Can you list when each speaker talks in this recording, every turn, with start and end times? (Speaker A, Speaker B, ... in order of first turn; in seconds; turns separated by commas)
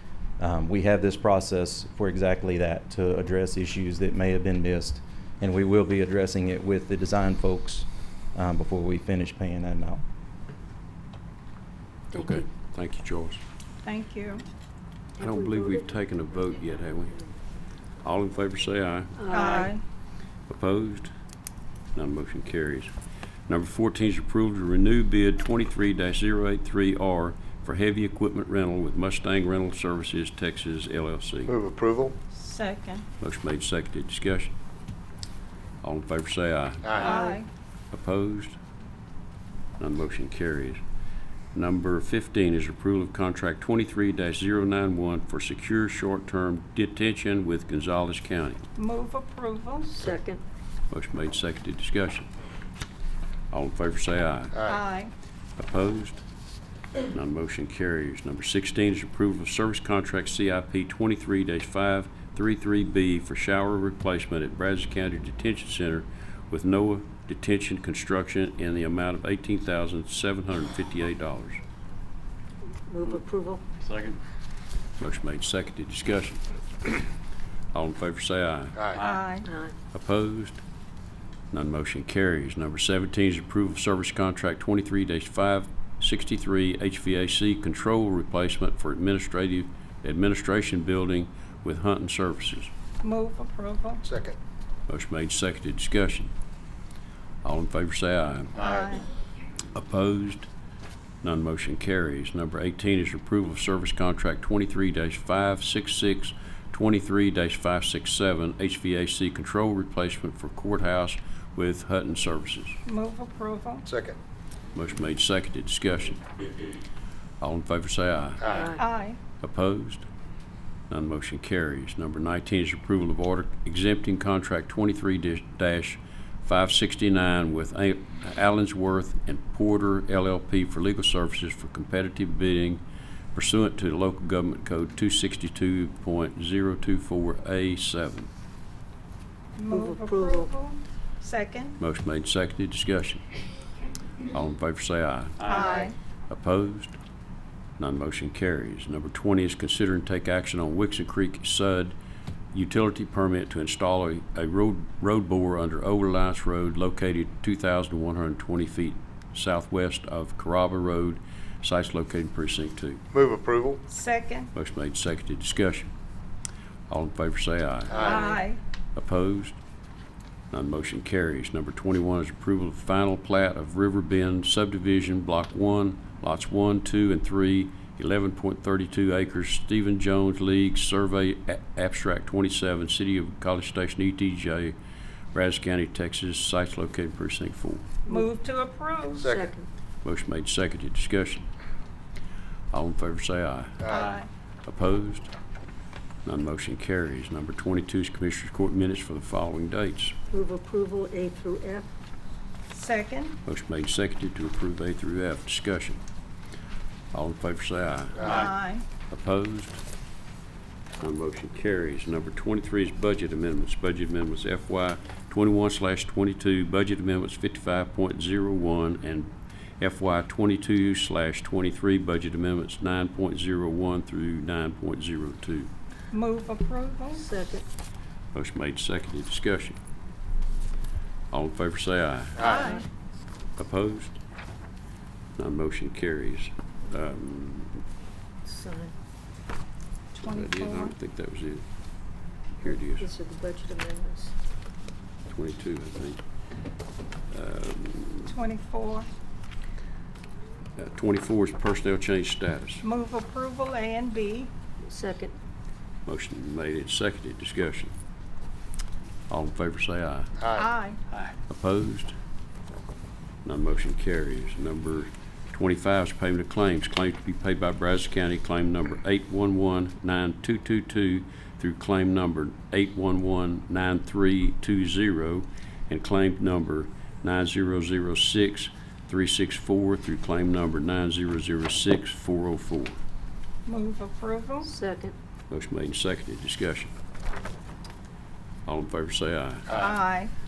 Speaker A: 0.4-10.0, Speaker B: 12.1-13.4, Speaker C: 13.8-14.4, Speaker D: 15.2-15.9, Speaker B: 15.2-17.3, Speaker B: 18.0-19.3, Speaker D: 19.2-19.7, Speaker C: 19.3-19.8, Speaker B: 20.5-21.1, Speaker B: 21.9-22.9, Speaker B: 23.5-31.6, Speaker E: 31.5-32.1, Speaker C: 32.3-33.0, Speaker B: 33.2-34.5, Speaker B: 35.8-37.3, Speaker E: 36.9-37.2, Speaker C: 37.0-37.5, Speaker B: 37.9-38.6, Speaker B: 39.8-40.8, Speaker B: 41.5-48.6, Speaker C: 48.8-50.0, Speaker D: 50.0-50.4, Speaker B: 50.9-52.3, Speaker B: 53.5-54.6, Speaker C: 54.6-55.1, Speaker B: 55.6-56.2, Speaker B: 57.1-71.6, Speaker D: 72.9-73.6, Speaker B: 73.8-74.2, Speaker B: 75.0-77.0, Speaker B: 77.7-79.0, Speaker C: 78.9-79.5, Speaker D: 79.4-79.7, Speaker B: 79.9-80.6, Speaker B: 81.5-92.7, Speaker C: 93.0-94.0, Speaker E: 94.0-94.4, Speaker B: 94.9-96.3, Speaker B: 97.4-98.6, Speaker C: 98.6-99.0, Speaker B: 99.7-100.5, Speaker B: 101.2-112.8, Speaker C: 112.8-113.9, Speaker E: 113.8-114.2, Speaker B: 114.7-116.2, Speaker B: 117.4-118.6, Speaker C: 118.7-119.2, Speaker B: 119.4-120.0, Speaker B: 120.9-132.8, Speaker B: 133.3-138.3, Speaker C: 139.6-141.8, Speaker D: 139.7-140.5, Speaker B: 141.8-143.2, Speaker B: 144.3-145.6, Speaker C: 145.4-145.9, Speaker B: 146.3-146.9, Speaker B: 147.8-151.9, Speaker B: 152.5-163.0, Speaker E: 163.1-163.8, Speaker C: 163.9-164.5, Speaker B: 164.5-165.9, Speaker B: 166.9-168.3, Speaker E: 167.9-168.2, Speaker C: 168.0-168.6, Speaker B: 168.9-169.6, Speaker B: 170.5-184.8, Speaker B: 185.3-188.0, Speaker C: 188.1-189.3, Speaker E: 189.2-189.5, Speaker D: 189.2-189.7, Speaker B: 190.0-191.5, Speaker B: 192.7-193.9, Speaker C: 193.8-194.3, Speaker B: 194.7-195.3, Speaker B: 196.2-200.2, Speaker D: 200.3-201.9, Speaker C: 202.7-203.4, Speaker B: 203.4-206.0, Speaker B: 207.1-208.5, Speaker C: 208.2-208.8, Speaker B: 209.1-209.8, Speaker B: 211.0-225.7, Speaker C: 226.1-227.2, Speaker D: 227.2-227.6, Speaker B: 228.3-229.8, Speaker B: 231.3-232.5, Speaker E: 232.4-232.7, Speaker C: 232.4-232.8, Speaker B: 233.6-234.2, Speaker B: 235.4-237.8, Speaker D: 238.4-238.9, Speaker C: 240.1-240.9, Speaker B: 240.2-241.6, Speaker B: 242.6-243.1, Speaker D: 243.0-244.3, Speaker B: 245.3-246.2, Speaker B: 247.3-248.3, Speaker C: 248.3-249.1, Speaker B: 250.8-252.8, Speaker C: 252.8-254.5, Speaker D: 254.9-255.3, Speaker B: 256.1-257.9, Speaker B: 259.3-260.4, Speaker C: 260.5-261.0, Speaker B: 261.5-262.1, Speaker B: 263.4-282.9, Speaker C: 283.6-284.7, Speaker D: 284.6-285.1, Speaker B: 285.5-286.9, Speaker B: 288.6-289.8, Speaker C: 289.8-290.3